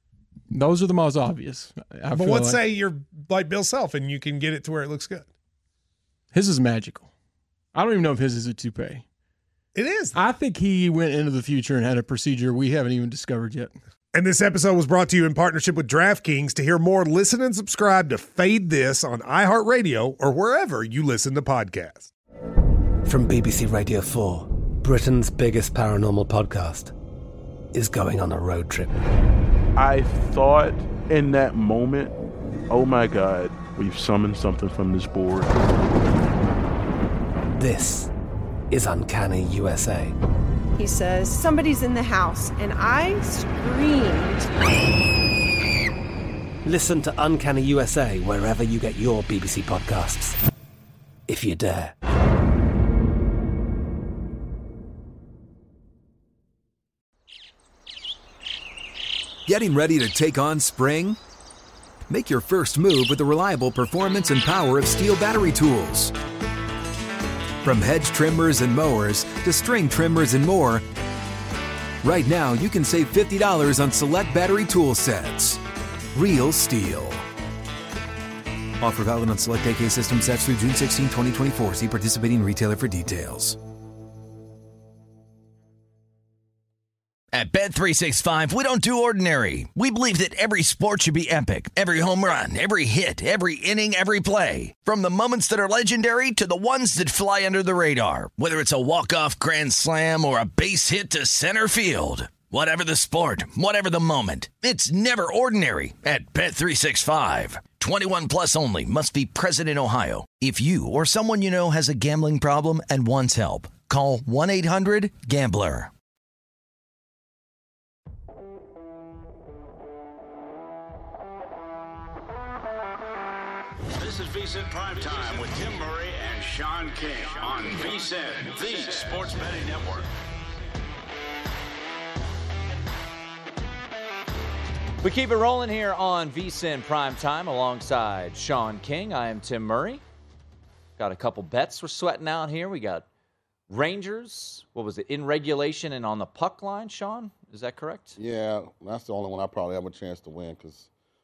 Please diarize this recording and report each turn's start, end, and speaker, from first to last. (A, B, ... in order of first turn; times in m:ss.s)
0:00.5-0:02.6 A
0:02.1-0:05.3 B
0:06.3-0:07.1 A
0:07.7-0:09.0 A
0:09.7-0:10.2 B
0:10.1-0:13.7 A
0:14.1-0:22.1 B
0:23.0-0:26.9 C
0:27.7-0:29.0 C
0:29.8-0:32.1 D
0:32.7-0:35.5 D
0:37.6-0:38.1 C
0:38.7-0:40.2 C
0:40.8-0:44.5 E
0:46.6-0:50.4 C
0:51.3-0:52.0 C
0:59.4-1:01.2 F
1:02.1-1:06.1 F
1:07.6-1:10.8 F
1:12.0-1:15.6 F
1:16.1-1:17.2 F
1:18.8-1:23.6 F
1:27.3-1:55.9 G
2:03.9-2:10.1 H
2:15.0-2:20.0 I
2:21.0-2:23.0 I
2:23.7-2:28.2 I
2:28.2-2:30.9 J